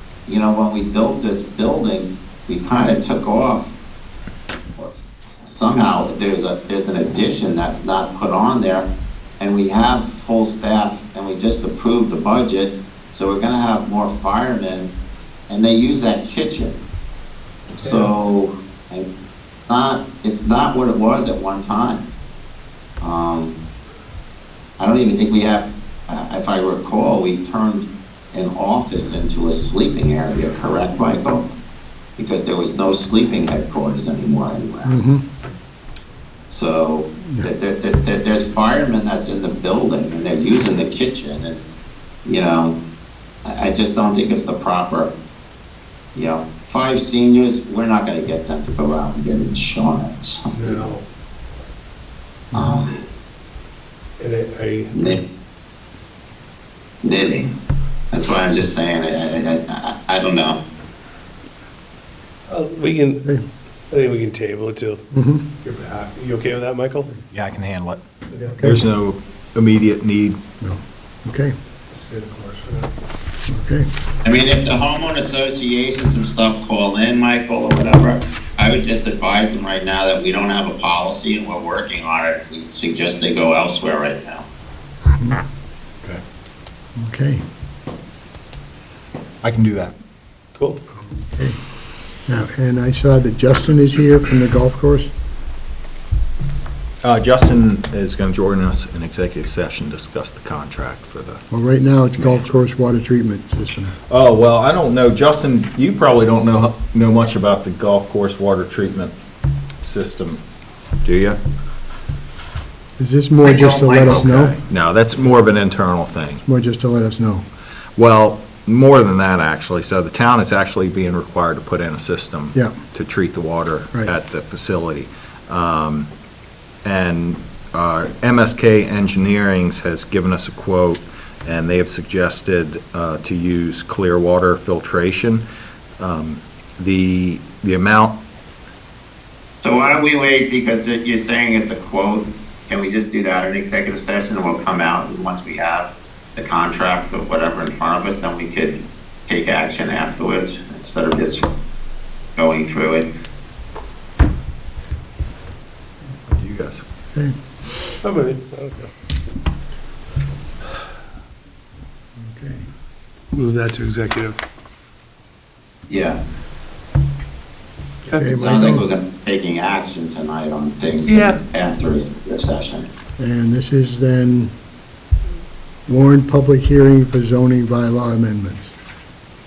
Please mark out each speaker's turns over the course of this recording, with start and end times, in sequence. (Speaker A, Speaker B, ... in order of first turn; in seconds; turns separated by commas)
Speaker A: 0.2-3.7, Speaker A: 4.8-8.9, Speaker A: 9.4-14.9, Speaker A: 15.5-16.7, Speaker A: 17.8-19.1, Speaker B: 17.8-18.1, Speaker A: 19.7-22.0, Speaker A: 23.0-23.6, Speaker A: 24.8-31.4, Speaker A: 32.2-34.9, Speaker C: 34.8-35.2, Speaker A: 36.5-41.6, Speaker A: 42.2-42.8, Speaker A: 43.4-45.1, Speaker A: 46.1-50.8, Speaker B: 50.5-51.0, Speaker A: 52.5-53.0, Speaker B: 54.2-55.2, Speaker A: 54.9-55.2, Speaker A: 57.0-57.5, Speaker A: 58.1-60.6, Speaker B: 62.5-63.2, Speaker B: 63.9-65.0, Speaker C: 65.1-65.4, Speaker B: 65.6-67.1, Speaker D: 67.3-68.0, Speaker C: 68.6-68.8, Speaker D: 68.6-70.4, Speaker C: 70.6-71.5, Speaker B: 71.9-72.9, Speaker C: 73.5-73.9, Speaker A: 74.2-84.5, Speaker C: 87.0-87.4, Speaker D: 89.4-89.9, Speaker C: 91.0-91.6, Speaker C: 92.3-95.1, Speaker D: 97.0-101.4, Speaker C: 101.5-103.9, Speaker D: 104.1-109.1, Speaker D: 109.8-110.4, Speaker D: 111.0-111.4, Speaker C: 113.0-114.5, Speaker A: 113.4-114.3, Speaker D: 114.0-116.4, Speaker C: 116.4-117.4, Speaker D: 118.0-126.1, Speaker C: 122.5-122.8, Speaker D: 126.8-135.4, Speaker D: 136.0-138.2, Speaker A: 139.6-151.5, Speaker A: 152.4-153.1, Speaker D: 156.3-156.8, Speaker B: 158.0-158.9, Speaker C: 162.2-162.6, Speaker B: 163.3-164.4, Speaker A: 165.9-166.2, Speaker C: 168.1-168.8, Speaker A: 168.2-172.9, Speaker B: 171.1-171.4, Speaker C: 173.2-174.5, Speaker C: 175.9-178.7